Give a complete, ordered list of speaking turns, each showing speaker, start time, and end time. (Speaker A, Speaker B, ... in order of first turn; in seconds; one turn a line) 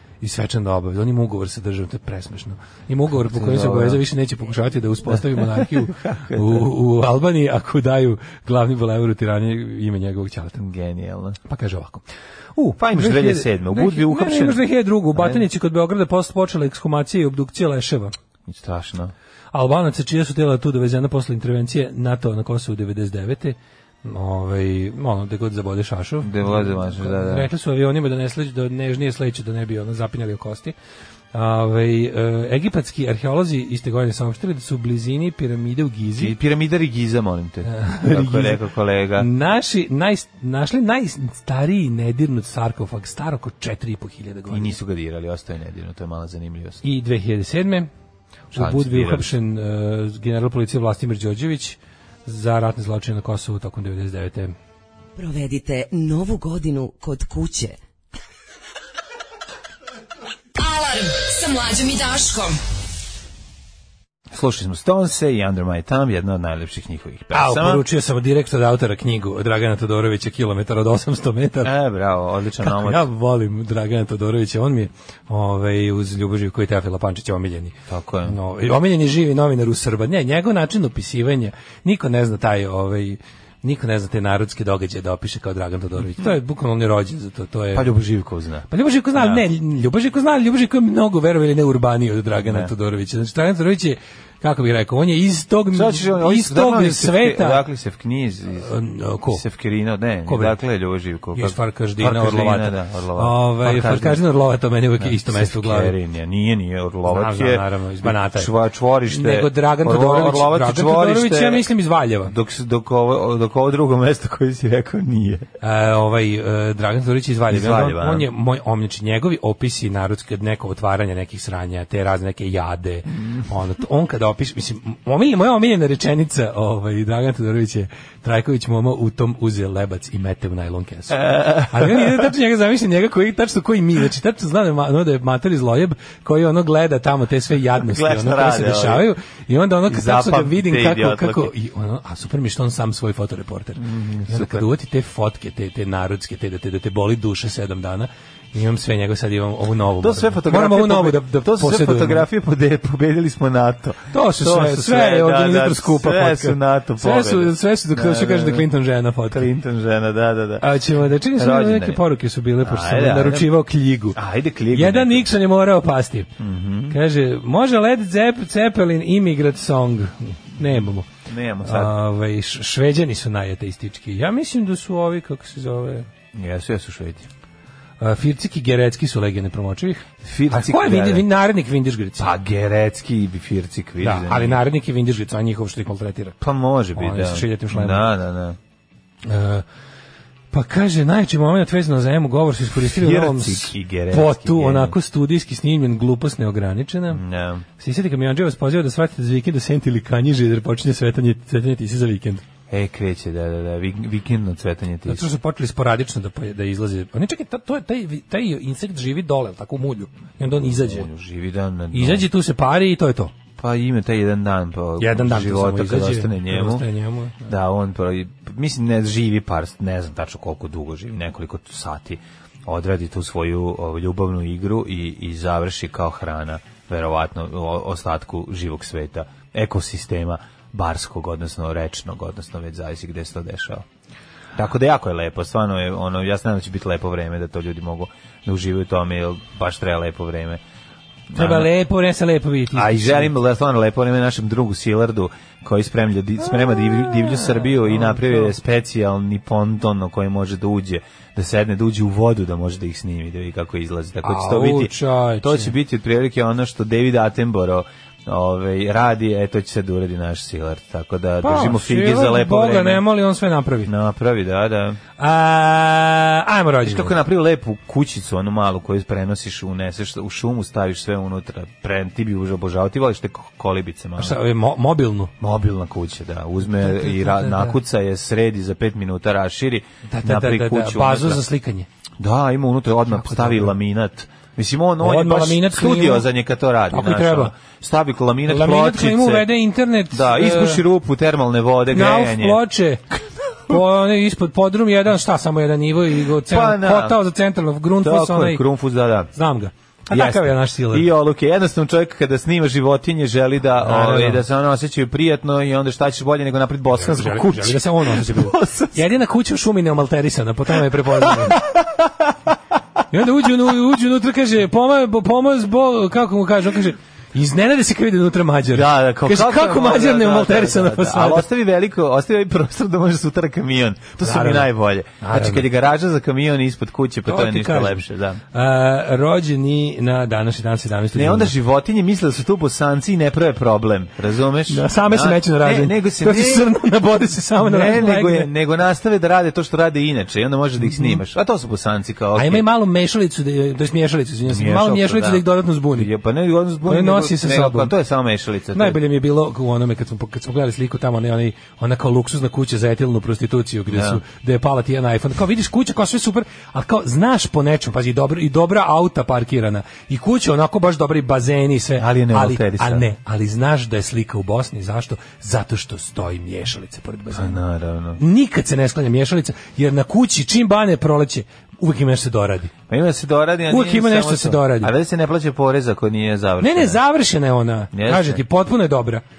Speaker A: 0.2-10.6
Speaker B: 3.2-4.0
Speaker B: 5.1-6.7
Speaker B: 10.6-11.4
Speaker A: 11.5-12.0
Speaker A: 12.6-18.1
Speaker B: 12.8-14.6
Speaker B: 15.2-15.4
Speaker B: 18.5-19.1
Speaker A: 19.5-30.7
Speaker B: 26.2-27.5
Speaker A: 31.3-36.4
Speaker B: 36.2-39.3
Speaker A: 37.6-38.6
Speaker A: 39.2-44.8
Speaker B: 44.5-46.8
Speaker A: 46.8-47.9
Speaker A: 48.5-54.5
Speaker B: 48.5-49.3
Speaker C: 55.2-57.8
Speaker D: 60.6-62.6
Speaker B: 64.3-67.8
Speaker A: 67.3-71.7
Speaker B: 71.6-73.1
Speaker A: 72.6-88.0
Speaker B: 77.9-78.4
Speaker B: 87.7-89.4
Speaker A: 88.7-97.6
Speaker B: 92.5-92.7
Speaker B: 95.7-98.7
Speaker A: 98.6-99.4
Speaker B: 99.3-104.2
Speaker A: 100.3-100.6
Speaker A: 101.3-105.9
Speaker B: 105.0-111.7
Speaker A: 107.1-108.5
Speaker A: 109.1-112.3
Speaker B: 112.3-115.5
Speaker A: 115.6-152.3
Speaker B: 117.5-118.3
Speaker B: 131.1-132.3
Speaker B: 137.8-139.1
Speaker B: 139.9-141.5
Speaker B: 143.8-144.7
Speaker B: 150.0-158.7
Speaker A: 154.1-159.5
Speaker B: 159.3-160.7
Speaker A: 160.6-164.2
Speaker B: 161.3-162.0
Speaker B: 162.6-163.6
Speaker B: 164.1-165.3
Speaker A: 164.7-166.3
Speaker B: 166.4-167.0
Speaker A: 166.9-171.1
Speaker B: 171.3-172.0
Speaker A: 171.6-176.1
Speaker B: 176.3-177.3
Speaker A: 178.0-182.3
Speaker B: 180.2-181.3
Speaker B: 182.2-184.6
Speaker A: 184.0-186.4
Speaker B: 186.4-188.6
Speaker A: 187.0-188.1
Speaker A: 189.3-189.7
Speaker A: 190.5-197.2
Speaker B: 192.8-194.9
Speaker B: 197.1-197.7
Speaker A: 197.8-202.4
Speaker B: 202.7-205.2
Speaker A: 205.1-211.1
Speaker B: 210.6-212.3
Speaker A: 211.9-213.3
Speaker B: 213.6-216.8
Speaker A: 215.0-217.5
Speaker B: 217.5-233.8
Speaker B: 234.6-240.6
Speaker B: 241.3-241.7
Speaker A: 241.3-243.3
Speaker B: 242.7-263.0
Speaker A: 247.2-248.5
Speaker A: 254.2-255.8
Speaker A: 261.4-263.9
Speaker B: 263.9-265.0
Speaker A: 265.2-267.2
Speaker B: 266.8-274.4
Speaker A: 274.2-275.3
Speaker B: 275.4-281.4
Speaker A: 276.7-277.8
Speaker A: 280.1-281.9
Speaker B: 282.2-289.5
Speaker A: 283.1-283.7
Speaker A: 285.0-286.3
Speaker A: 286.9-287.5
Speaker A: 288.5-290.8
Speaker B: 290.1-292.6
Speaker A: 291.9-293.0
Speaker A: 293.7-298.6
Speaker B: 296.4-297.2
Speaker B: 298.0-299.3
Speaker A: 299.3-301.1
Speaker B: 300.1-309.1
Speaker A: 303.8-304.4
Speaker A: 307.0-311.6
Speaker B: 311.2-312.1
Speaker A: 313.1-321.5
Speaker B: 318.7-328.4
Speaker A: 324.2-325.7
Speaker A: 327.3-331.5
Speaker B: 331.1-336.7
Speaker A: 334.7-338.5
Speaker B: 337.6-342.6
Speaker A: 340.8-341.2
Speaker A: 342.4-346.1
Speaker B: 344.5-349.0
Speaker A: 346.9-347.9
Speaker A: 348.7-367.6
Speaker B: 353.9-354.2
Speaker B: 362.0-363.1
Speaker B: 367.3-368.2
Speaker A: 368.2-372.7
Speaker B: 372.9-377.0
Speaker A: 373.7-374.9
Speaker A: 376.6-379.2
Speaker B: 377.9-378.4